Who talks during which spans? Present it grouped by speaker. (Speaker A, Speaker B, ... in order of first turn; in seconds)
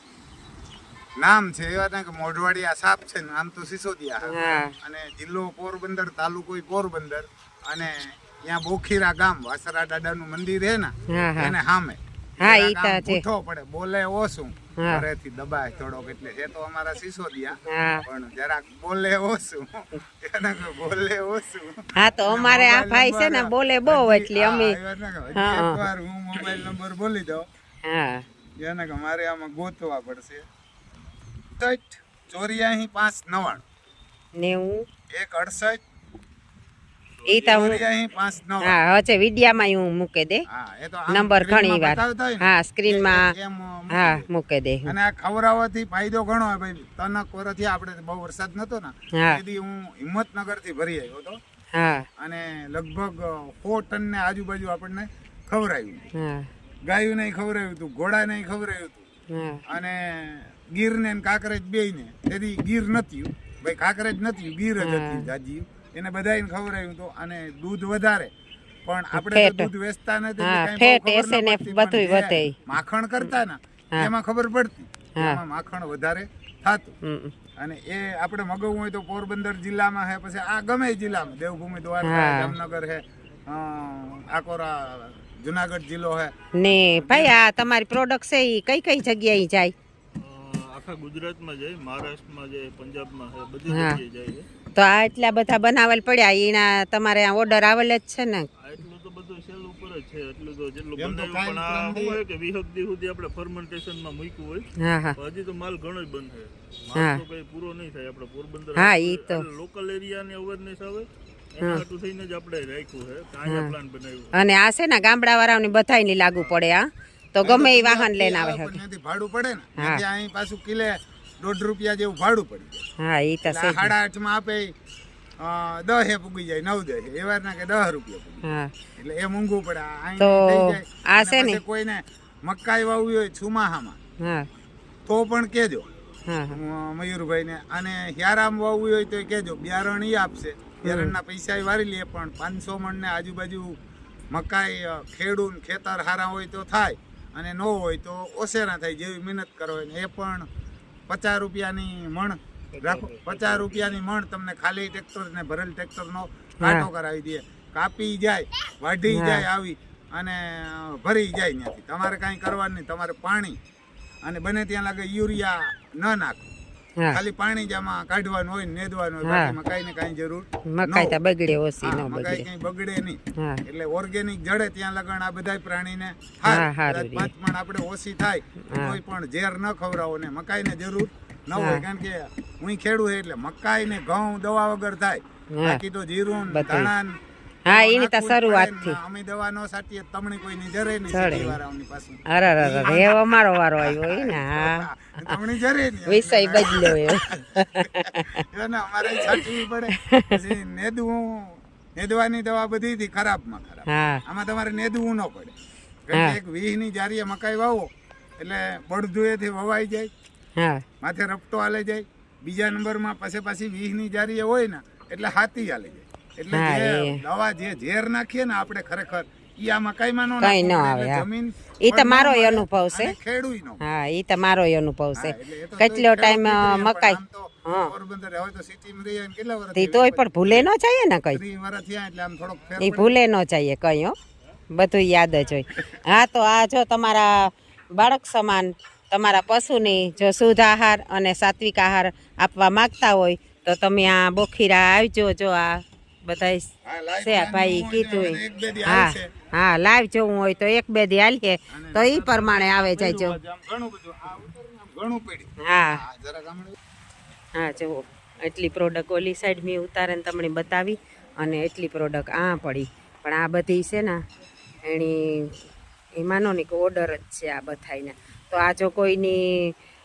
Speaker A: 1.2-27.5, 28.6-30.4, 31.6-33.6, 35.1-35.8, 37.3-38.8, 40.5-44.2, 44.9-51.4, 52.2-56.1, 56.9-59.0, 59.7-68.3, 68.9-76.9, 77.6-86.3, 87.0-87.4, 101.0-102.2, 117.4-122.8, 123.5-124.7, 125.4-128.4, 129.0-134.0, 135.1-135.9, 136.5-143.8, 144.3-150.5, 151.1-163.6, 164.2-166.4, 167.1-171.2, 171.8-197.8, 198.4-205.5, 206.1-210.1, 211.0-223.8, 225.2-230.7, 231.3-233.1, 246.8-249.3, 251.7-256.8
Speaker B: 4.3-4.7, 11.1-11.5, 12.4-13.2, 14.8-15.0, 17.7-18.0, 22.0-24.8, 25.4-25.8, 27.9-28.2, 34.4-34.9, 37.3-37.8, 38.6-40.4, 41.1-43.3, 43.9-44.9, 49.1-49.4, 51.8-52.1, 56.1-56.5, 59.3-59.6, 64.8-65.3, 69.1-69.7, 70.4-72.6, 77.0-77.3, 82.0-82.5, 86.6-89.7, 93.7-94.0, 94.8-98.5, 104.8-105.2, 106.9-107.2, 108.8-109.5, 113.5-113.7, 114.3-118.8, 119.8-120.0, 123.0-123.9, 128.4-128.7, 130.2-131.6, 136.3-136.6, 140.8-141.1, 156.6-156.9, 159.1-159.4, 169.2-169.5, 170.7-172.4, 176.4-177.3, 178.7-179.0, 181.6-181.8, 185.5-185.8, 186.5-186.9, 187.7-189.0, 191.1-191.6, 192.3-195.3, 196.1-198.4, 199.2-199.5, 200.1-200.4, 203.9-204.2, 210.6-210.8, 216.5-217.2, 220.4-221.2, 221.8-223.1, 223.8-227.9, 229.8-231.4, 232.8-234.2, 234.7-246.7, 247.2-253.4, 255.6-256.0, 257.6-264.2, 264.8-265.6, 266.2-269.8
Speaker C: 37.2-37.7, 90.2-94.5, 98.6-114.4, 152.7-153.9